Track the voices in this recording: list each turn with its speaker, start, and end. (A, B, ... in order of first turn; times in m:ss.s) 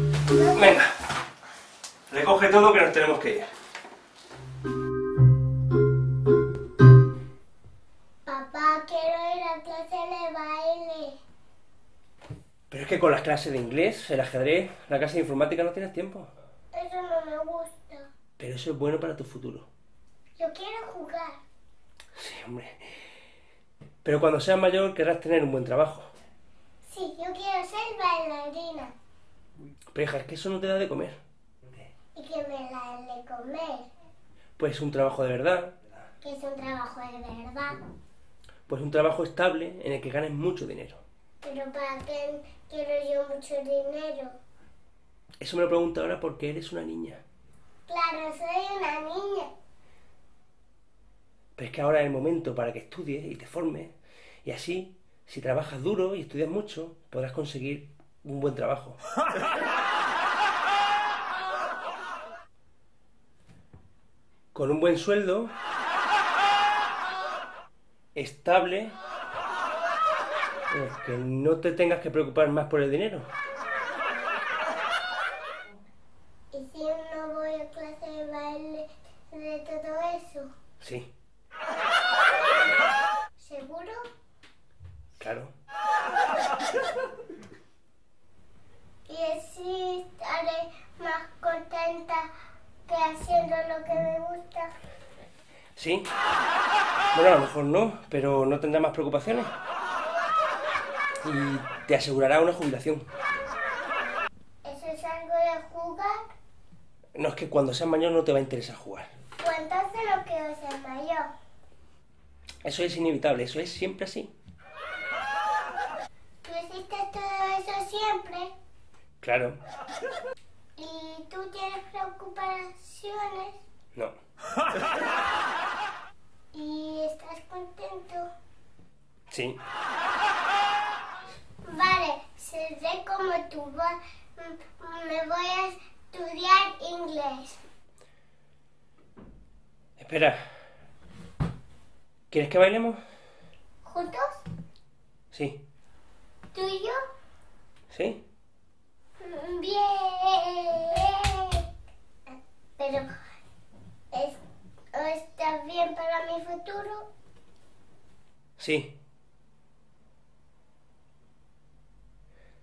0:00.2-0:00.8 A
0:00.5-0:00.9 B
0:02.1-0:03.5 B
0:08.2-0:11.2 A
0:12.7-0:16.3 B
0:16.7-0:18.1 A
0:18.4-0:19.7 B
0:20.4-0:21.4 A
0:22.1-0:22.8 B
0:24.0-0:26.1 B
0:26.8-0:28.9 A
0:29.9-0:31.2 B
0:32.1-0:33.9 A
0:34.6-0:35.7 B
0:36.2-0:37.8 A
0:38.7-0:41.0 B
0:41.4-0:44.4 A
0:45.4-0:47.2 B
0:47.9-0:49.5 A
0:51.6-0:53.9 B
0:54.4-0:59.0 B
1:04.5-1:05.5 B
1:08.1-1:08.9 B
1:10.7-1:13.3 B
1:16.5-1:20.5 A
1:20.8-1:21.1 B
1:23.4-1:24.0 A
1:25.2-1:25.5 B
1:29.1-1:32.3 A
1:32.8-1:34.7 A
1:35.8-1:36.0 B
1:37.1-1:39.5 B
1:41.2-1:43.0 B
1:44.6-1:46.2 A
1:47.1-1:49.1 B
1:49.4-1:51.3 A
1:52.6-1:54.3 B
1:56.4-1:58.5 A
1:59.2-1:59.6 B
2:00.8-2:03.6 A
2:06.5-2:08.3 A
2:09.3-2:09.6 B
2:11.6-2:17.6 A
2:20.0-2:20.4 B
2:22.3-2:23.0 B
2:23.8-2:24.4 A
2:25.3-2:25.6 B
2:26.5-2:27.0 A
2:27.9-2:28.2 B
2:29.2-2:31.6 A
2:32.8-2:33.1 A
2:34.1-2:34.4 A
2:34.9-2:37.1 A
2:38.6-2:38.9 B